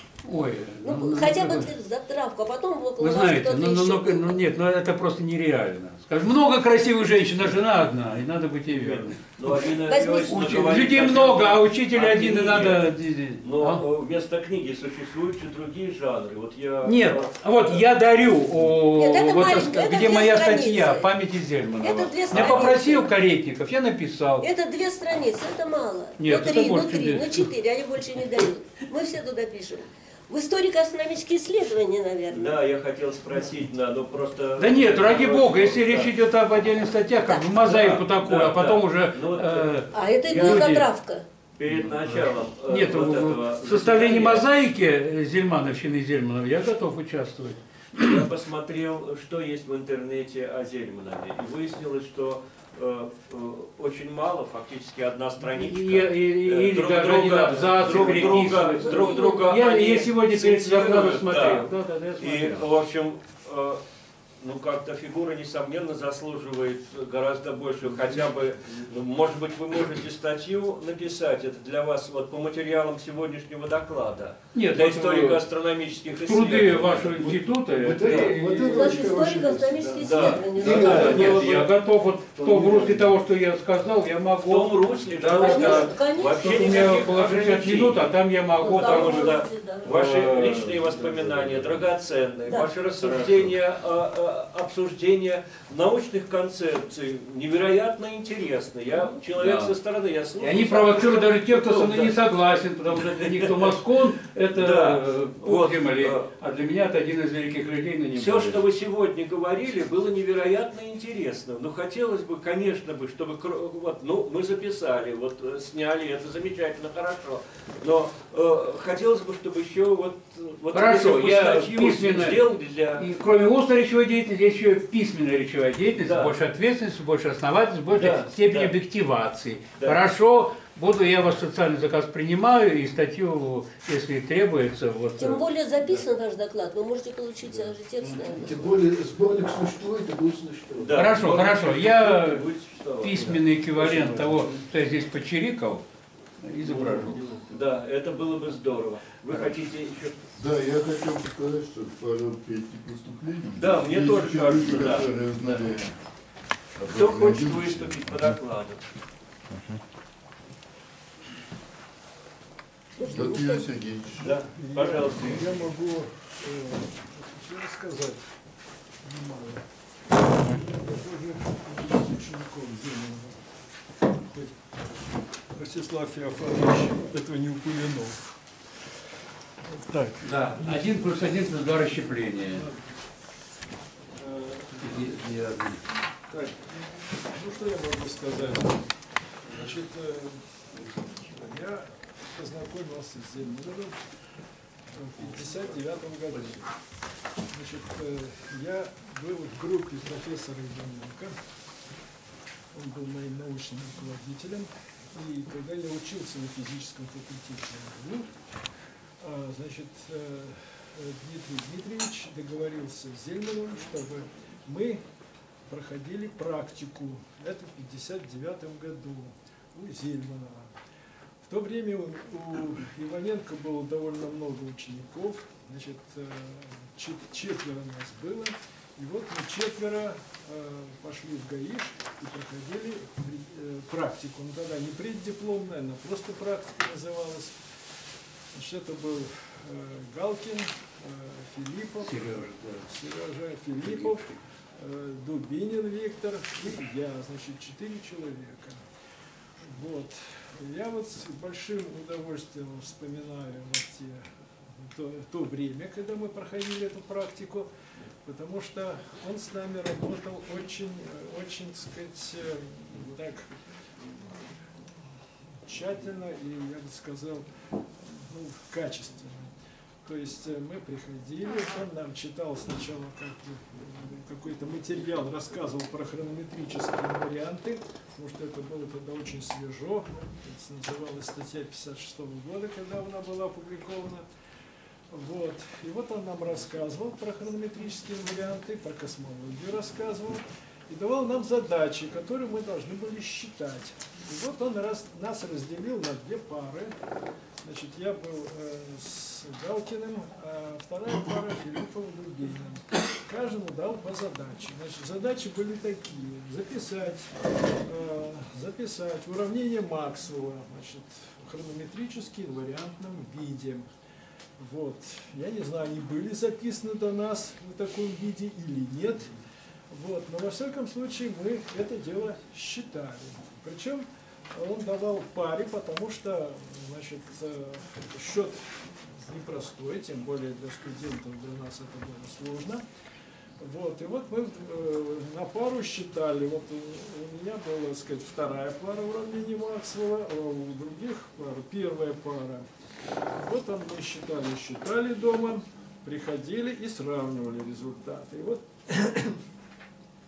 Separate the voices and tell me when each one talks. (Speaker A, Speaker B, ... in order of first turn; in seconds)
Speaker A: 0.2-1.7, 3.0-9.2, 10.3-13.8, 16.9-24.5, 26.2-27.5, 34.6-40.9, 41.7-48.1, 55.4-62.7, 74.5-75.4, 76.2-79.2, 80.0-90.9, 92.8-93.5, 99.4-99.7, 100.4-108.6, 120.7-122.4, 123.0-135.4, 140.9-142.5, 143.0-145.8, 146.4-147.2, 180.2-182.7, 184.8-185.8, 242.0-242.9
Speaker B: 0.8-4.4, 9.9-10.5, 18.9-21.1, 21.8-23.1, 24.4-32.6, 39.9-41.3, 58.0-59.5, 78.1-81.4, 85.3-86.7, 88.6-90.0, 92.5-92.7, 135.2-138.5, 163.0-163.7
Speaker C: 8.7-12.9, 13.4-17.8, 32.3-36.1, 37.6-40.8, 41.6-44.5, 48.0-61.7, 62.2-63.8, 64.4-78.3, 80.0-81.7, 82.3-83.0, 84.5-88.1, 88.6-102.2, 103.0-103.8, 104.5-106.4, 108.2-123.1, 126.0-126.3, 127.9-128.7, 140.8-144.5, 147.5-150.2, 153.6-155.7, 156.9-158.9, 164.2-165.5
Speaker D: 138.4-140.9
Speaker E: 146.6-147.5, 164.5-168.3, 169.0-169.6, 170.6-173.5, 174.2-174.6, 175.5-178.4, 179.8-180.9, 182.4-182.8, 184.2-185.2, 186.3-186.7, 187.2-188.9, 189.5-194.0, 194.9-196.7, 197.5-201.3, 202.7-208.3, 209.2-215.0, 215.7-220.8, 221.4-237.6, 238.5-248.8, 249.6-254.2, 254.8-257.7, 258.2-263.6, 264.1-264.9, 265.6-284.3, 285.1-296.9, 297.6-313.9, 314.6-319.3, 319.9-332.9, 333.6-342.7, 343.3-349.4
Speaker F: 150.4-156.0, 156.8-158.2, 163.1-164.4